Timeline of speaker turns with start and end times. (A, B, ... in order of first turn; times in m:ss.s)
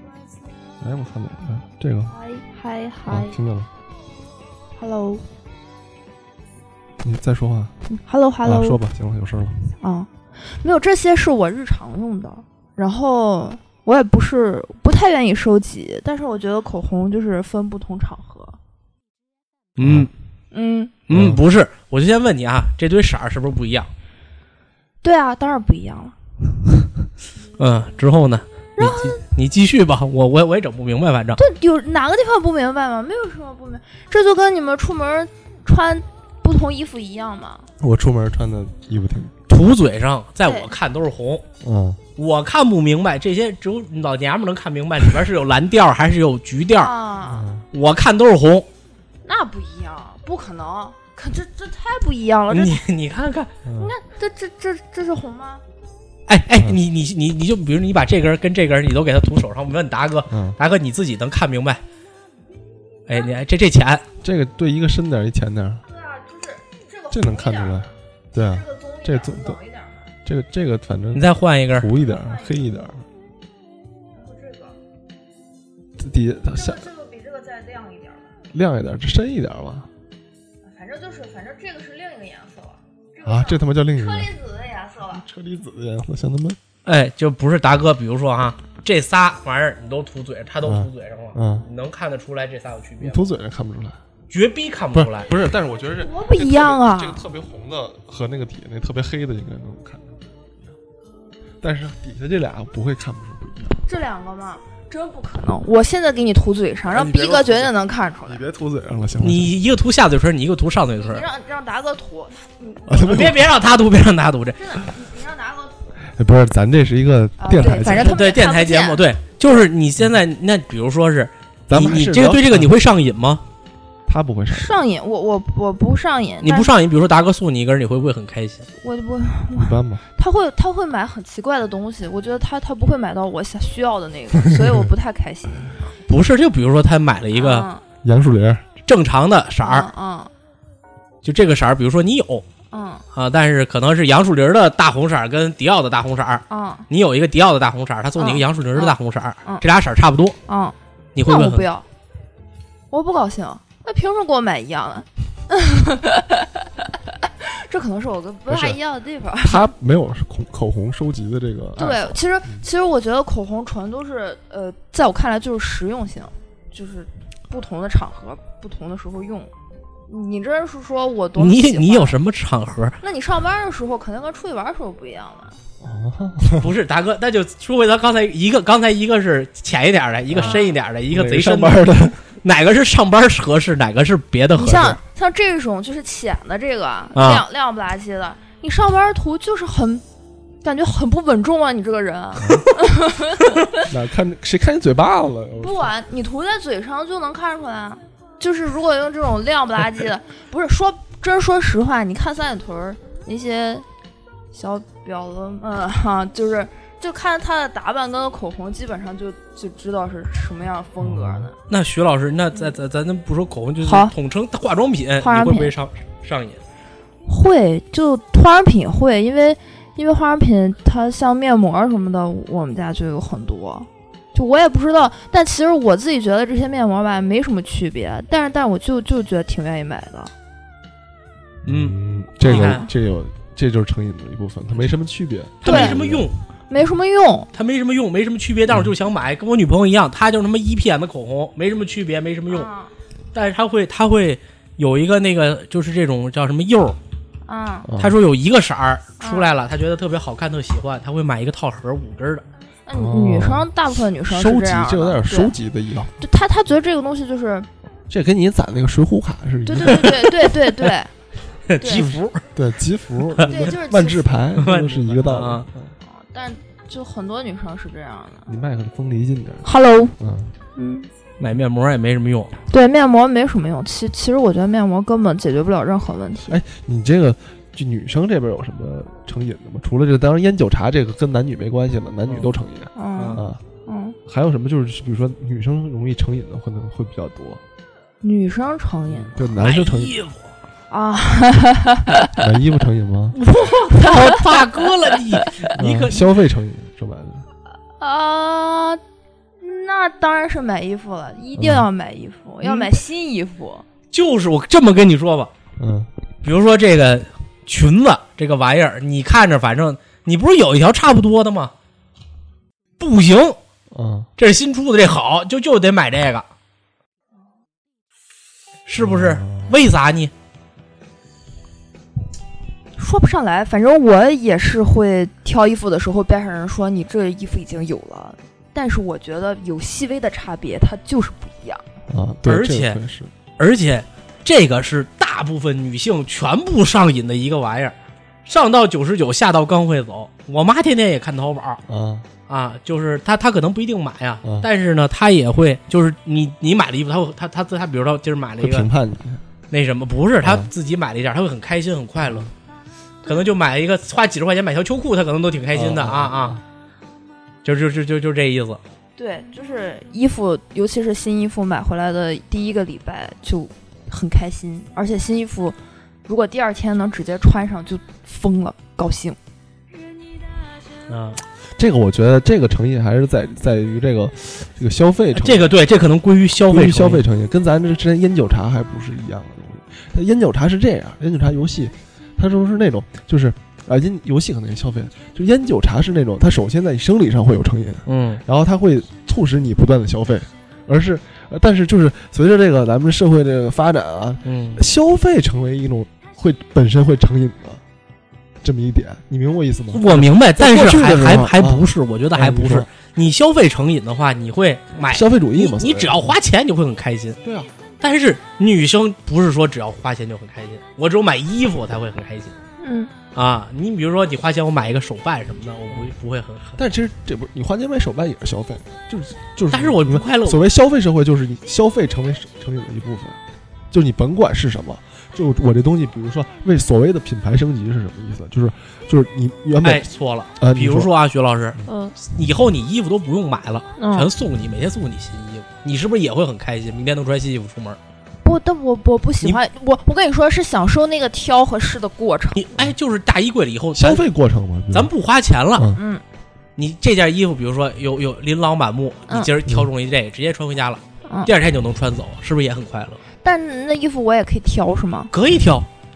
0:00.8-0:02.2 A
0:02.1-0:03.4 B
0:03.1-0:03.7 A
0:04.8-0:05.3 B
0:07.0-0:07.8 A
0:08.0-0:08.8 B
0:08.4-0:09.7 A
0:09.8-0:18.6 B
0:19.8-0:20.1 C
0:19.8-0:20.1 A
0:20.5-0:21.0 B
0:21.1-0:23.9 C
0:21.1-0:21.4 A
0:25.0-0:26.2 B
0:27.6-0:31.4 C
0:28.8-0:29.2 B
0:31.4-0:37.7 B
0:37.8-0:39.3 A
0:39.5-0:41.4 C
0:40.4-0:40.7 B
0:41.6-0:42.0 A
0:42.2-0:46.9 C
0:46.8-0:47.4 B
0:47.3-0:47.6 A
0:47.7-0:48.7 C
0:49.2-0:52.8 B
0:52.5-0:53.6 C
0:53.6-0:53.9 A
0:53.8-0:55.6 B
0:56.3-1:01.8 C
1:00.3-1:00.6 A
1:03.1-1:04.0 C
1:04.2-1:05.8 A
1:05.9-1:07.8 B
1:07.1-1:09.6 A
1:08.6-1:10.1 B
1:10.2-1:13.0 A
1:11.2-1:11.9 C
1:12.0-1:12.5 B
1:14.2-1:14.8 B
1:16.0-1:16.9 A
1:16.5-1:18.3 B
1:18.5-1:19.9 A
1:20.6-1:25.2 B
1:23.2-1:24.3 A
1:25.1-1:26.6 A
1:26.8-1:33.2 C
1:30.6-1:31.7 A
1:33.0-1:34.0 A
1:34.3-1:35.3 C
1:34.9-1:40.7 A
1:36.0-1:37.2 B
1:41.6-1:43.8 A
1:43.9-1:48.4 B
1:46.9-1:47.7 A
1:48.3-1:49.5 A
1:49.2-1:51.3 C
1:51.0-1:53.4 B
1:52.9-1:53.4 A
1:52.9-1:54.6 C
1:54.6-1:55.9 B
1:56.0-1:58.2 A
1:57.4-1:59.1 B
1:57.6-2:03.4 C
2:01.7-2:02.7 A
2:04.1-2:04.7 A
2:04.5-2:06.7 B
2:06.4-2:08.7 C
2:08.8-2:15.7 B
2:09.6-2:10.0 A
2:14.5-2:14.8 A
2:16.1-2:17.7 C
2:17.3-2:17.8 B
2:18.0-2:18.6 A
2:18.8-2:19.9 C
2:19.6-2:20.3 B
2:21.2-2:22.4 C
2:22.7-2:23.0 B
2:23.1-2:30.4 C
2:26.5-2:26.9 B
2:28.2-2:29.7 B
2:30.5-2:31.9 B
2:31.2-2:31.7 C
2:32.9-2:39.6 B
2:38.5-2:38.8 A
2:39.4-2:42.6 A
2:41.8-2:49.5 B
2:50.1-2:52.2 B
2:51.4-2:53.0 C
2:53.0-2:55.6 B
2:55.8-2:56.7 A
2:56.6-3:05.0 C
3:00.3-3:00.6 A
3:00.4-3:00.8 B
3:01.1-3:02.2 A
3:04.5-3:10.0 B
3:07.2-3:07.4 C
3:10.6-3:13.8 B
3:12.4-3:12.6 A
3:13.8-3:15.9 A
3:15.6-3:23.9 B
3:24.5-3:31.6 B
3:31.0-3:31.5 A
3:31.7-3:36.6 C
3:33.8-3:34.1 B
3:35.2-3:35.7 B
3:37.3-3:50.3 B
3:51.6-3:56.3 A
3:51.7-3:52.9 C
3:52.5-3:52.9 B
3:55.6-3:56.4 C
3:55.6-3:56.0 B
3:56.7-3:57.5 B
3:57.5-4:02.7 C
4:02.5-4:02.9 B
4:03.3-4:07.0 C
4:07.5-4:07.9 B
4:07.9-4:08.2 A
4:08.0-4:12.5 C
4:09.2-4:09.5 B
4:12.9-4:15.5 B
4:12.9-4:13.7 A
4:14.3-4:16.2 A
4:16.2-4:17.7 B
4:18.1-4:20.2 A
4:19.7-4:21.1 B
4:21.7-4:22.4 C
4:21.8-4:22.1 B
4:21.9-4:25.9 A
4:23.4-4:23.7 C
4:23.5-4:24.4 B
4:24.6-4:25.7 C
4:26.1-4:28.5 B
4:28.5-4:29.7 A
4:29.6-4:30.2 B
4:30.2-4:30.5 A
4:30.8-4:31.1 B
4:31.4-4:32.5 C
4:32.7-4:36.6 B
4:36.5-4:43.6 A
4:43.0-4:44.2 B
4:43.2-4:43.4 C
4:44.3-4:47.6 A
4:48.2-4:49.5 B
4:49.1-4:50.1 A
4:49.6-4:50.5 C
4:50.9-4:52.4 B
4:52.4-4:53.4 A
4:53.3-4:56.2 C
4:53.5-4:54.6 B
4:55.3-4:55.6 B
4:55.8-4:57.5 A
4:58.0-4:59.0 B
4:59.6-5:03.8 B
5:01.6-5:01.9 A
5:02.6-5:02.9 C
5:04.1-5:05.5 C
5:05.8-5:06.1 A
5:06.4-5:11.7 C
5:13.0-5:13.6 C
5:13.9-5:14.3 A
5:14.4-5:16.4 C
5:18.9-5:20.3 C
5:19.0-5:19.8 A
5:23.0-5:31.8 B
5:32.1-5:33.3 A
5:32.4-5:33.0 C
5:33.6-5:41.8 C
5:41.9-5:42.3 A
5:42.5-5:48.9 C
5:44.4-5:44.7 A
5:48.6-5:49.4 A
5:49.7-5:52.5 C
5:50.4-5:50.7 A
5:52.2-5:52.5 A
5:53.3-5:56.6 C
5:55.7-5:56.6 A
5:57.6-5:58.8 C
5:59.2-6:09.4 B
6:11.1-6:11.4 C
6:11.8-6:15.7 A
6:15.3-6:17.2 C
6:16.7-6:37.8 A
6:28.1-6:28.4 C
6:34.4-6:34.8 C
6:38.6-6:42.9 A
6:39.9-6:47.4 C
6:45.1-6:46.4 A
6:47.4-6:47.7 A
6:48.0-6:52.6 C
6:52.8-6:53.1 B
6:53.3-6:56.8 C
6:56.8-7:03.4 A
6:59.7-7:00.6 C
7:03.9-7:11.1 A
7:09.8-7:18.0 C
7:11.9-7:12.2 B
7:14.0-7:14.3 B
7:18.4-7:22.6 B
7:22.6-7:24.2 C
7:24.0-7:25.1 A
7:24.9-7:25.9 C
7:26.0-7:26.2 B
7:26.8-7:33.2 C
7:31.3-7:31.5 B
7:33.4-7:35.3 B
7:35.3-7:35.9 C